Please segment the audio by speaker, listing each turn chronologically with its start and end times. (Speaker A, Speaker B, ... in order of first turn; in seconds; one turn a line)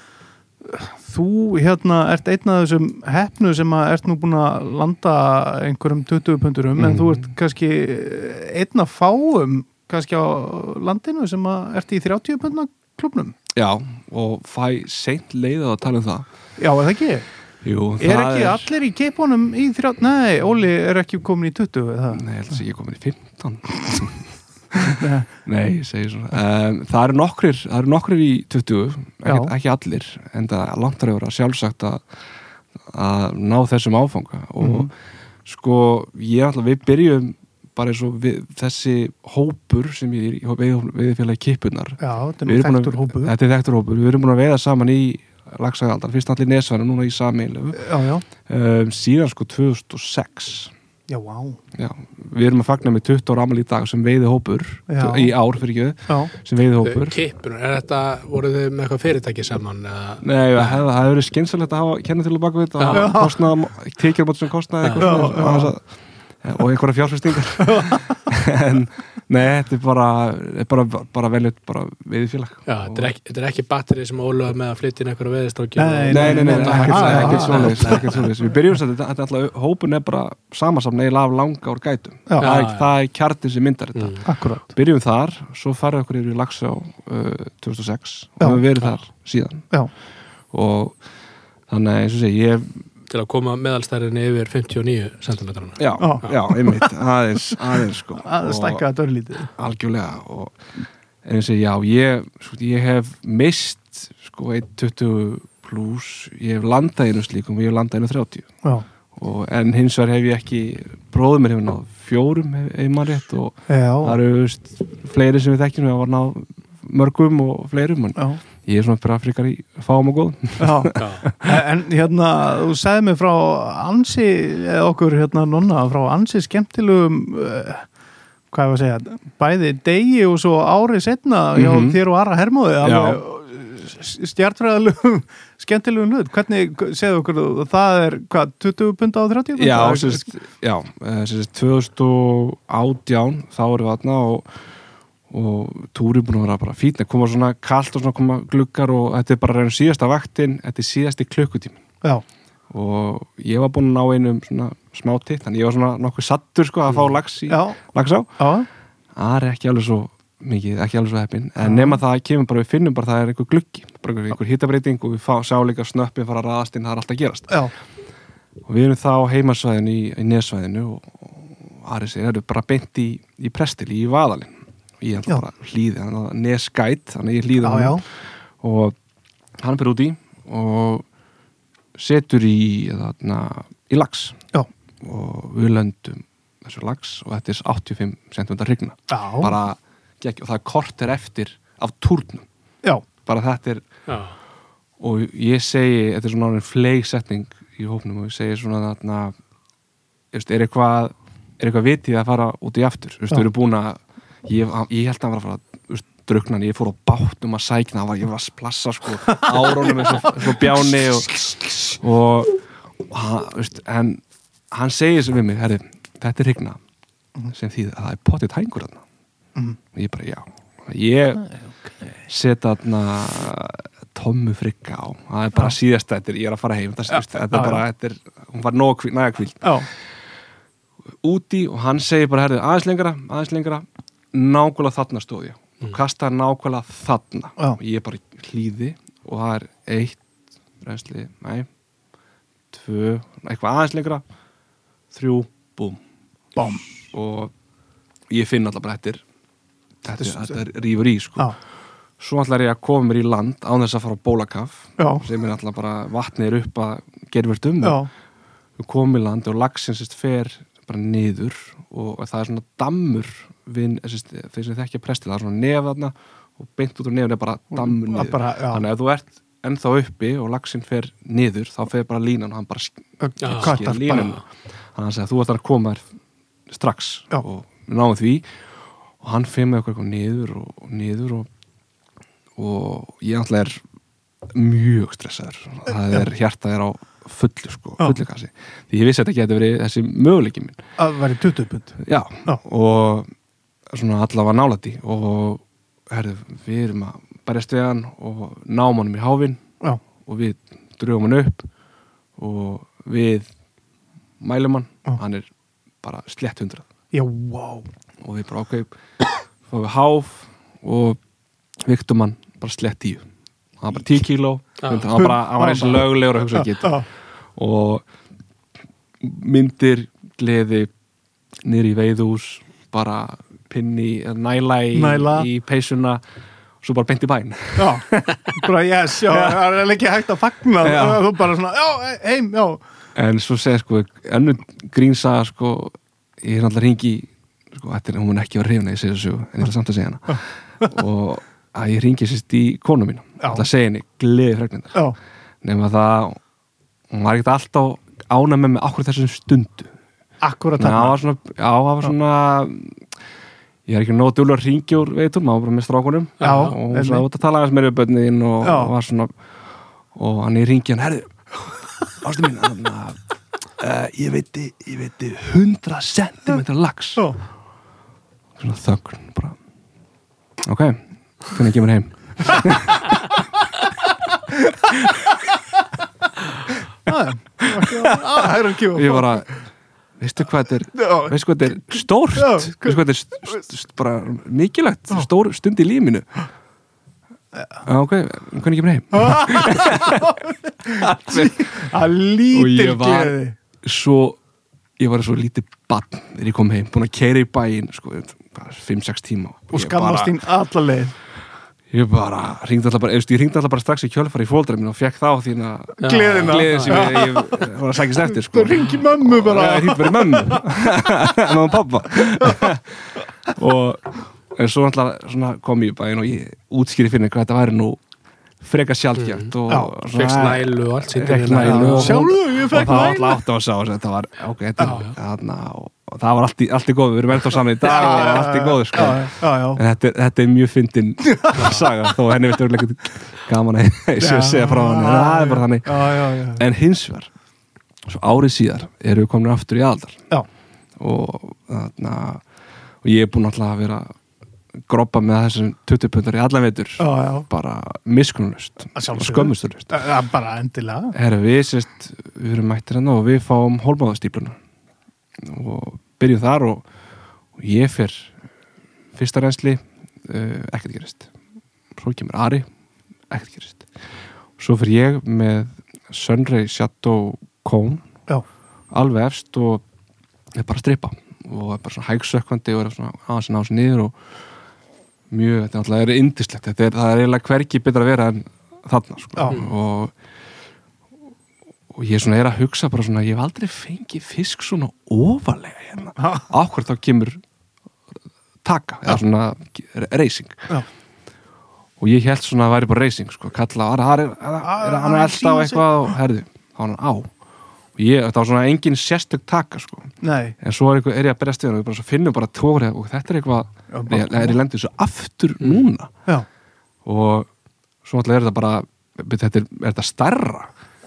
Speaker A: 0.6-13.4
Speaker B: 6.8-7.3
Speaker B: 13.5-16.2
Speaker A: 16.6-17.3
Speaker B: 17.6-18.7
Speaker A: 18.0-22.2
Speaker B: 22.1-32.0
Speaker A: 24.8-25.3
Speaker A: 29.2-29.5
Speaker B: 32.9-34.9
Speaker A: 34.6-34.9
Speaker B: 35.4-50.7
Speaker A: 42.0-43.3
Speaker A: 47.7-48.2
Speaker A: 51.1-51.6
Speaker B: 51.7-57.2
Speaker A: 54.9-55.3
Speaker C: 56.8-60.8
Speaker B: 60.2-65.8
Speaker C: 62.8-63.1
Speaker A: 62.9-63.4
Speaker C: 64.8-65.1
Speaker A: 65.0-65.7
Speaker B: 66.4-73.1
Speaker A: 67.6-68.1
Speaker C: 72.7-78.3
Speaker A: 75.8-78.0
Speaker B: 76.1-89.7
Speaker C: 82.4-82.9
Speaker C: 84.0-84.2
Speaker A: 84.2-84.7
Speaker B: 90.5-91.0
Speaker B: 91.7-92.8
Speaker C: 93.1-96.3
Speaker B: 95.8-98.8
Speaker A: 96.0-96.9
Speaker A: 98.2-99.5
Speaker B: 99.5-100.6
Speaker B: 101.2-108.5
Speaker B: 109.1-121.5
Speaker A: 113.7-114.2
Speaker A: 120.6-127.9
Speaker C: 121.0-121.2
Speaker A: 128.5-140.2
Speaker B: 131.5-132.0
Speaker B: 132.8-133.2
Speaker B: 139.6-144.6
Speaker B: 145.3-151.8
Speaker B: 152.7-158.4
Speaker A: 157.5-157.8
Speaker A: 158.4-158.7
Speaker B: 159.2-167.6
Speaker A: 161.6-162.0
Speaker B: 168.7-178.0
Speaker A: 177.6-178.0
Speaker B: 178.6-178.9
Speaker B: 179.6-181.0
Speaker B: 181.9-184.4
Speaker B: 185.0-192.4
Speaker A: 189.1-189.5
Speaker B: 193.2-193.8
Speaker C: 194.1-194.3
Speaker B: 195.0-199.3
Speaker B: 200.3-211.4
Speaker A: 209.3-212.0
Speaker B: 211.9-212.6
Speaker B: 213.1-216.8
Speaker B: 217.5-219.0
Speaker B: 219.9-221.4
Speaker B: 222.2-230.0
Speaker A: 227.1-227.8
Speaker A: 229.6-229.9
Speaker B: 231.2-240.2
Speaker B: 240.8-241.7
Speaker B: 242.7-244.2
Speaker B: 245.1-246.0
Speaker A: 246.6-246.9
Speaker B: 246.6-247.5
Speaker B: 248.3-249.2
Speaker B: 250.0-251.5
Speaker A: 250.2-250.5
Speaker B: 252.2-258.0
Speaker A: 255.0-255.2
Speaker A: 257.8-258.1
Speaker B: 258.8-274.4
Speaker A: 267.7-268.8
Speaker A: 273.2-274.3
Speaker C: 273.4-274.3
Speaker B: 274.9-276.1
Speaker B: 276.7-278.5
Speaker B: 279.2-281.5
Speaker B: 282.6-283.8
Speaker B: 284.5-290.8
Speaker A: 291.0-292.6
Speaker B: 292.0-293.3
Speaker B: 293.9-299.6
Speaker B: 300.2-301.7
Speaker B: 302.4-303.5
Speaker B: 304.4-305.5
Speaker B: 306.0-306.8
Speaker A: 307.1-307.9
Speaker B: 308.2-308.9
Speaker B: 309.6-311.2
Speaker B: 311.8-313.3
Speaker B: 313.8-317.0
Speaker C: 314.8-315.1
Speaker A: 315.1-317.1
Speaker B: 317.5-318.0
Speaker B: 319.2-320.9
Speaker B: 321.6-326.2
Speaker A: 324.9-325.5
Speaker B: 326.8-328.7
Speaker A: 327.8-332.8
Speaker B: 329.2-329.6
Speaker B: 330.8-331.3
Speaker B: 333.1-345.0
Speaker A: 343.4-343.7
Speaker B: 345.6-346.4
Speaker B: 347.1-349.9
Speaker A: 350.4-351.2
Speaker B: 350.8-353.0
Speaker B: 353.9-359.3
Speaker C: 356.4-356.7
Speaker A: 356.4-357.2
Speaker A: 358.6-358.9
Speaker B: 360.1-363.2
Speaker B: 363.8-367.3
Speaker B: 368.6-369.6
Speaker B: 370.6-373.2
Speaker A: 377.1-379.4
Speaker B: 377.6-378.1
Speaker B: 378.9-379.5
Speaker B: 380.2-386.3
Speaker A: 380.9-381.3
Speaker A: 382.4-383.0
Speaker B: 387.8-391.9
Speaker A: 389.1-393.6
Speaker B: 392.5-394.4
Speaker B: 395.0-400.3
Speaker A: 399.7-401.1
Speaker B: 401.9-418.0
Speaker A: 406.0-407.7
Speaker C: 406.0-407.2
Speaker A: 408.3-410.6
Speaker A: 412.4-412.7
Speaker B: 418.6-437.3
Speaker C: 419.2-419.5
Speaker C: 420.1-422.3
Speaker A: 421.2-423.4
Speaker C: 424.8-425.1
Speaker A: 427.8-429.8
Speaker C: 431.6-431.8
Speaker A: 434.2-436.6
Speaker B: 438.1-440.2
Speaker B: 441.0-442.4
Speaker B: 443.0-444.1
Speaker B: 444.9-450.0
Speaker A: 447.0-447.4
Speaker A: 448.9-451.1
Speaker B: 451.1-454.6
Speaker B: 455.4-456.8
Speaker B: 457.6-458.4
Speaker B: 459.1-461.3
Speaker B: 461.9-462.7
Speaker B: 463.3-463.9
Speaker B: 464.6-468.0
Speaker B: 468.9-469.8
Speaker B: 470.5-474.1
Speaker B: 475.3-480.1
Speaker A: 479.4-479.6
Speaker B: 481.9-487.4
Speaker A: 486.2-486.5
Speaker B: 488.6-490.7
Speaker B: 492.0-497.3
Speaker A: 494.6-496.1
Speaker B: 497.9-506.1
Speaker A: 500.2-500.6
Speaker A: 503.9-504.6
Speaker C: 505.6-505.8
Speaker B: 507.0-507.5
Speaker B: 508.0-510.7